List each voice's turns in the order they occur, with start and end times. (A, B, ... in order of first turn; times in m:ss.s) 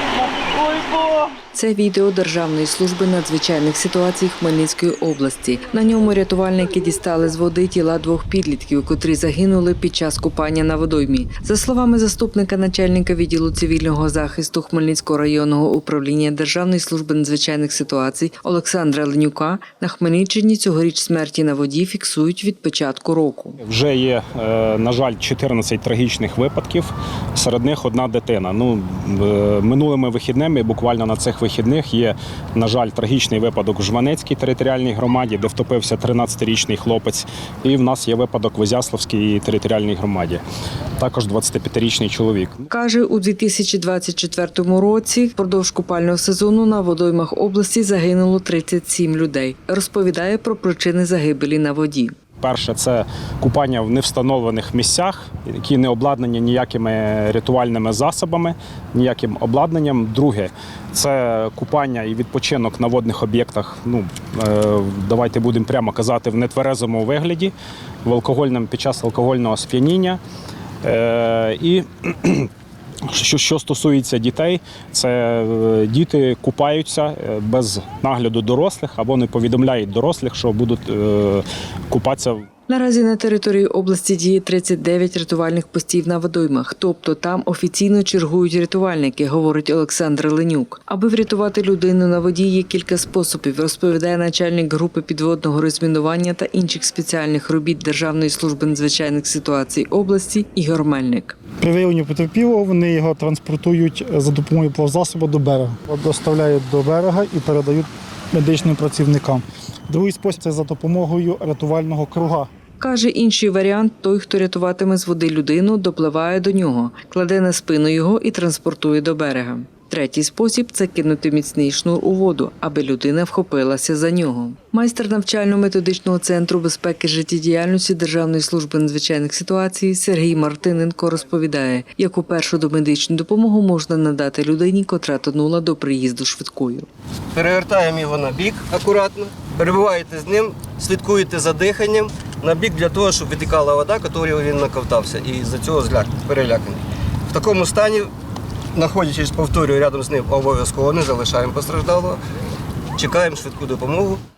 0:01.5-0:23.6 A
0:23.6-0:40.4 B
0:41.0-0:42.5 B
0:42.7-0:52.1 A
0:52.4-1:07.5 B
1:08.0-1:10.2 B
1:10.8-1:12.5 B
1:13.1-1:22.4 B
1:22.7-1:41.4 A
1:41.6-1:52.5 C
1:52.8-2:16.9 A
2:17.3-2:28.1 D
2:28.7-2:32.2 D
2:33.0-2:34.2 D